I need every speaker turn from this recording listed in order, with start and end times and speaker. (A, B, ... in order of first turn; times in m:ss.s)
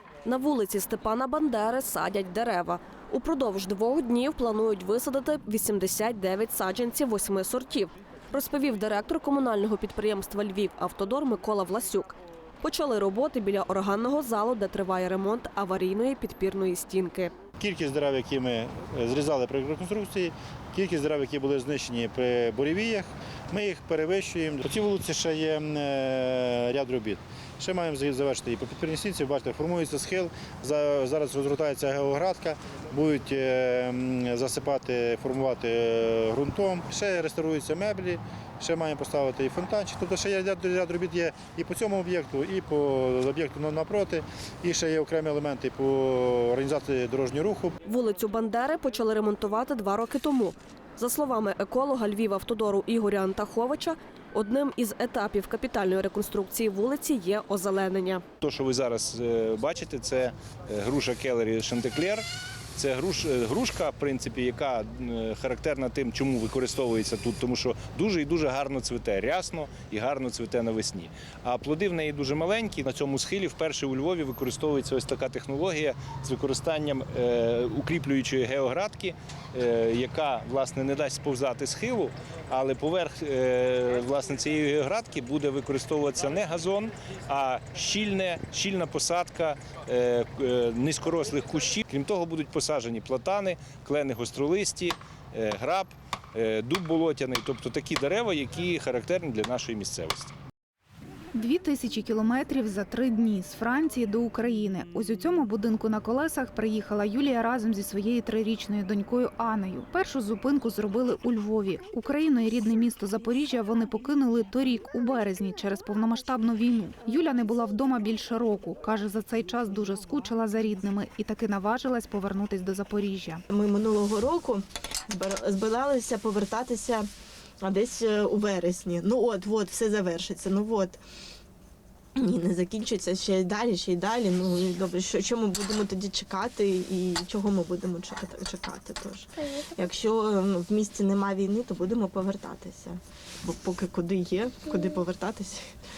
0:00.3-0:17.3 A
0:17.6-0:47.8 B
0:47.9-0:58.2 A
0:58.4-1:02.2 C
1:02.8-1:40.3 C
1:41.4-2:03.4 D
2:03.5-2:07.1 E
2:07.6-2:11.0 E
2:12.2-2:25.7 E